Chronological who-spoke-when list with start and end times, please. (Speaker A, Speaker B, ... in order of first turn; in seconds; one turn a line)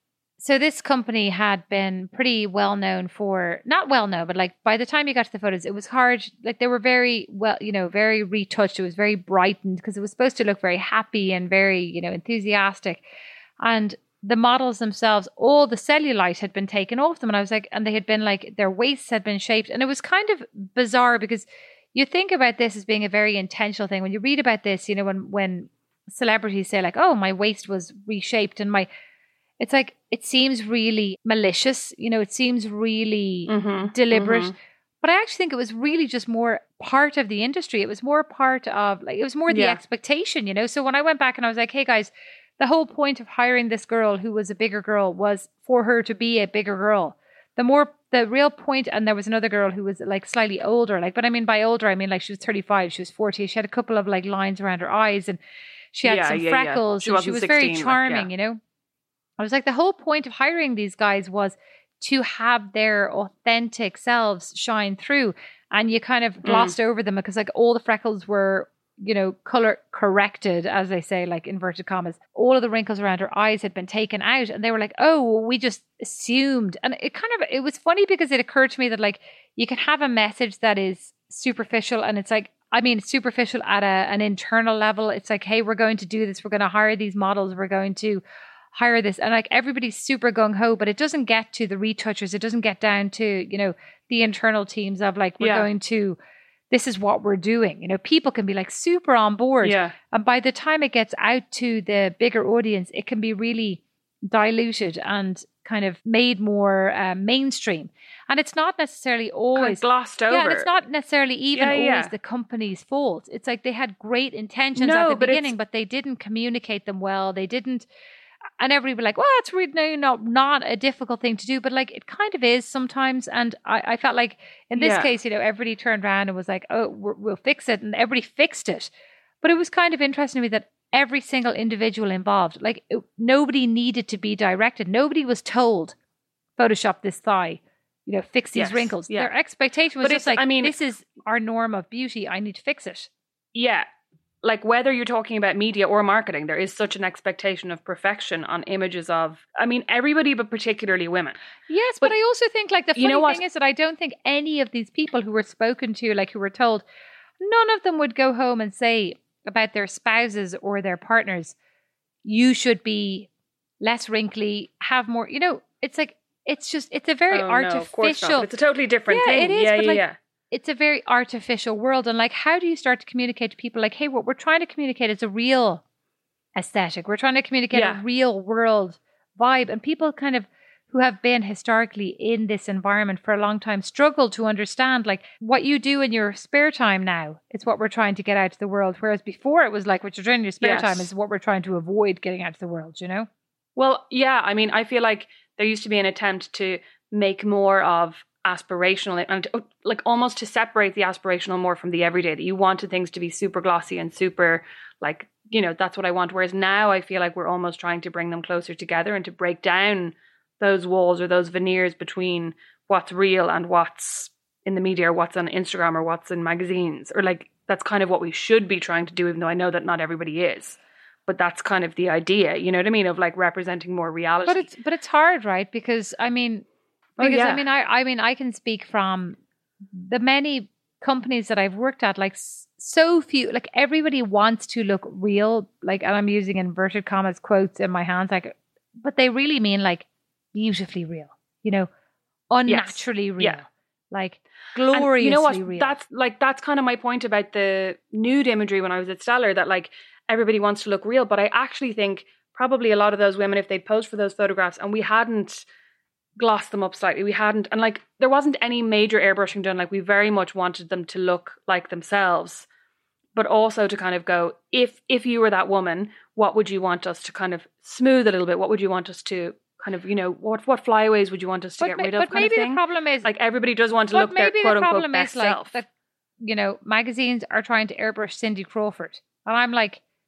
Speaker A: 0.4-13.0
Speaker A: 13.6-28.9
Speaker A: 29.6-55.4
Speaker B: 33.5-34.5
Speaker B: 39.5-39.8
Speaker A: 55.9-58.6
Speaker B: 56.0-58.3
Speaker A: 59.4-88.2
Speaker B: 66.4-66.7
Speaker A: 88.7-96.2
Speaker B: 95.4-95.7
Speaker A: 96.7-117.9
Speaker B: 99.6-100.0
Speaker B: 109.5-110.7
Speaker B: 111.5-112.1
Speaker B: 114.8-115.5
Speaker A: 118.6-128.9
Speaker B: 124.8-125.1
Speaker A: 129.4-135.9
Speaker A: 136.6-143.1
Speaker B: 138.6-139.3
Speaker B: 140.0-140.7
Speaker B: 143.6-143.9
Speaker B: 144.4-151.4
Speaker A: 151.7-156.8
Speaker B: 152.9-153.4
Speaker A: 157.4-161.6
Speaker A: 162.2-163.3
Speaker A: 163.8-168.5
Speaker B: 167.3-170.2
Speaker A: 169.1-175.8
Speaker A: 176.6-193.3
Speaker B: 177.7-178.0
Speaker B: 190.6-191.1
Speaker B: 193.8-224.7
Speaker A: 224.4-226.7
Speaker B: 227.2-227.6
Speaker A: 227.2-229.4
Speaker A: 229.9-241.9
Speaker A: 242.5-246.0
Speaker B: 242.7-243.6
Speaker B: 244.9-255.6
Speaker B: 256.4-262.7
Speaker B: 263.4-275.8
Speaker A: 271.8-273.3
Speaker A: 274.1-275.9
Speaker A: 276.4-280.0